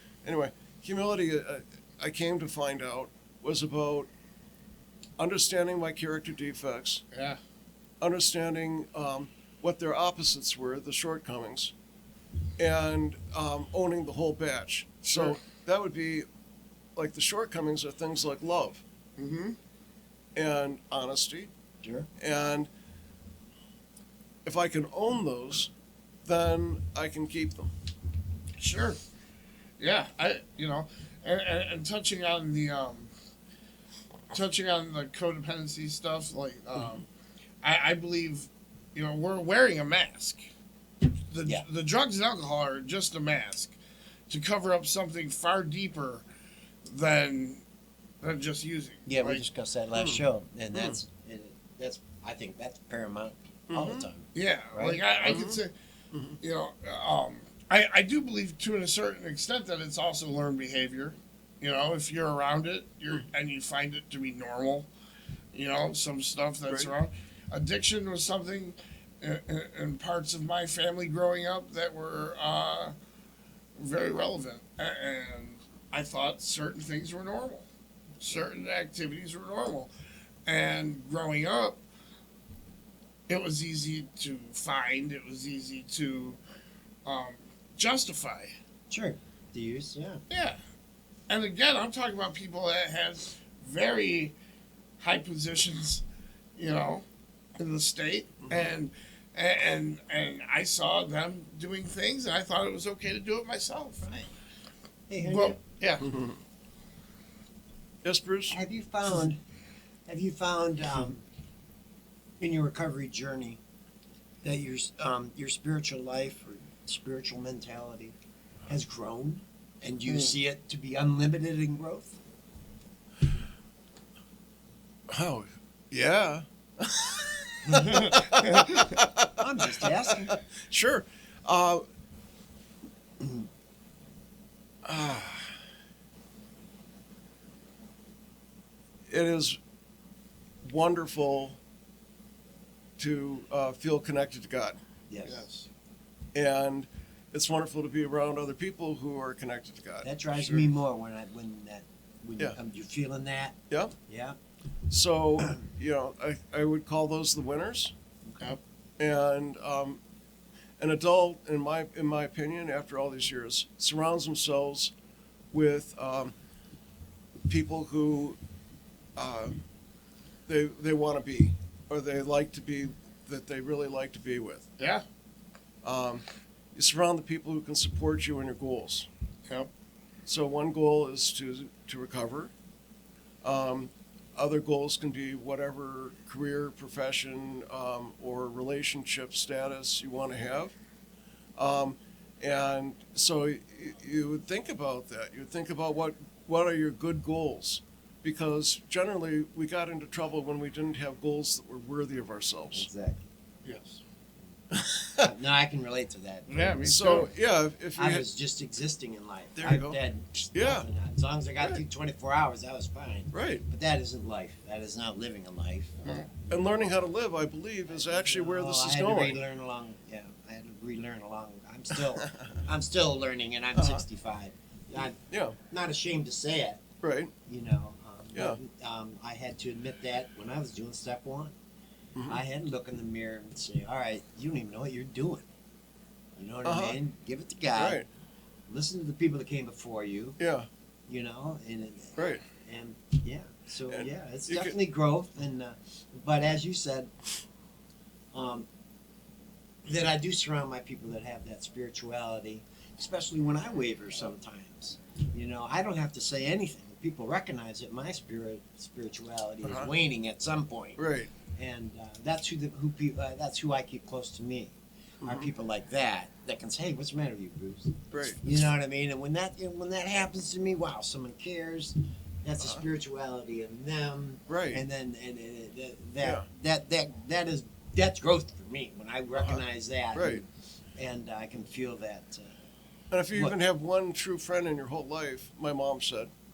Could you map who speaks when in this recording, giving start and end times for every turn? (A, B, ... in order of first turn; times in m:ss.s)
0:00.2-0:04.1 A
0:05.2-0:07.0 A
0:07.1-0:07.4 B
0:08.0-0:11.7 A
0:12.6-0:16.3 A
0:15.1-0:15.4 B
0:17.0-0:18.8 A
0:19.2-0:19.6 B
0:20.4-0:21.5 A
0:21.8-0:22.1 C
0:22.2-0:22.7 A
0:24.4-0:25.7 A
0:26.2-0:27.7 A
0:28.6-0:29.0 B
0:29.8-0:33.1 B
0:34.3-0:37.1 B
0:37.6-0:40.4 B
0:41.1-0:43.8 B
0:44.3-0:46.2 B
0:46.8-0:47.6 B
0:48.2-0:49.4 B
0:49.1-0:55.4 C
0:49.9-0:50.2 A
0:50.7-0:51.0 A
0:53.7-0:54.1 A
0:54.4-0:55.7 B
0:55.2-0:55.6 A
0:56.1-0:56.4 A
0:56.4-1:04.9 B
1:05.5-1:13.0 B
1:13.8-1:17.7 B
1:18.2-1:19.9 B
1:20.5-1:21.8 B
1:23.3-1:26.4 B
1:27.0-1:28.5 B
1:28.9-1:30.2 C
1:30.3-1:30.6 B
1:31.3-1:34.4 B
1:35.0-1:36.0 B
1:36.6-1:37.0 B
1:37.6-1:44.3 B
1:45.1-1:45.6 C
1:45.2-1:46.1 B
1:46.0-1:46.4 A
1:48.0-1:48.6 A
1:48.5-1:49.4 C
1:50.1-1:51.2 C
1:52.4-1:53.6 C
1:54.4-1:58.2 C
1:58.7-2:02.2 C
2:00.1-2:00.4 B
2:05.1-2:09.3 A
2:07.9-2:08.8 B
2:09.4-2:10.4 C
2:09.9-2:11.8 A
2:14.8-2:15.5 A
2:19.1-2:19.6 A
2:20.6-2:21.6 A
2:23.0-2:25.7 A
2:25.1-2:25.5 C
2:26.3-2:30.7 A
2:30.0-2:34.4 C
2:33.7-2:34.0 A
2:34.9-2:37.9 A
2:39.0-2:40.0 A
2:40.8-2:44.9 A
2:45.5-2:46.4 A
2:47.5-2:48.4 A
2:49.2-2:49.6 A
2:50.5-2:54.6 A
2:54.8-2:55.0 B
2:55.8-2:56.2 A
2:56.8-2:59.1 A
3:00.3-3:02.5 A
3:03.4-3:10.8 A
3:11.6-3:22.9 A
3:22.7-3:23.3 C
3:23.6-3:24.0 B
3:24.7-3:25.3 A
3:25.2-3:27.0 C
3:26.5-3:27.3 B
3:26.8-3:28.2 A
3:28.0-3:36.9 C
3:29.6-3:30.0 A
3:30.5-3:30.9 A
3:33.3-3:33.6 A
3:36.5-3:39.4 A
3:37.9-3:46.8 C
3:42.2-3:42.6 A
3:43.8-3:44.0 A
3:45.3-3:45.6 A
3:47.0-3:47.3 A
3:47.5-3:51.6 C
3:52.2-3:52.4 A
3:52.3-3:55.5 C
3:56.4-3:58.0 C
3:56.6-3:57.0 A
3:57.8-3:58.1 A
3:58.7-4:00.4 C
4:00.4-4:00.7 A
4:01.1-4:07.1 C
4:02.2-4:02.4 A
4:03.9-4:04.8 A
4:08.3-4:08.7 C
4:09.8-4:21.0 C
4:19.6-4:19.9 A
4:21.0-4:21.3 A
4:21.6-4:42.6 C
4:25.2-4:25.5 A
4:28.1-4:28.4 A
4:34.5-4:34.8 A
4:39.4-4:39.6 A
4:40.1-4:40.4 A
4:43.1-4:46.3 A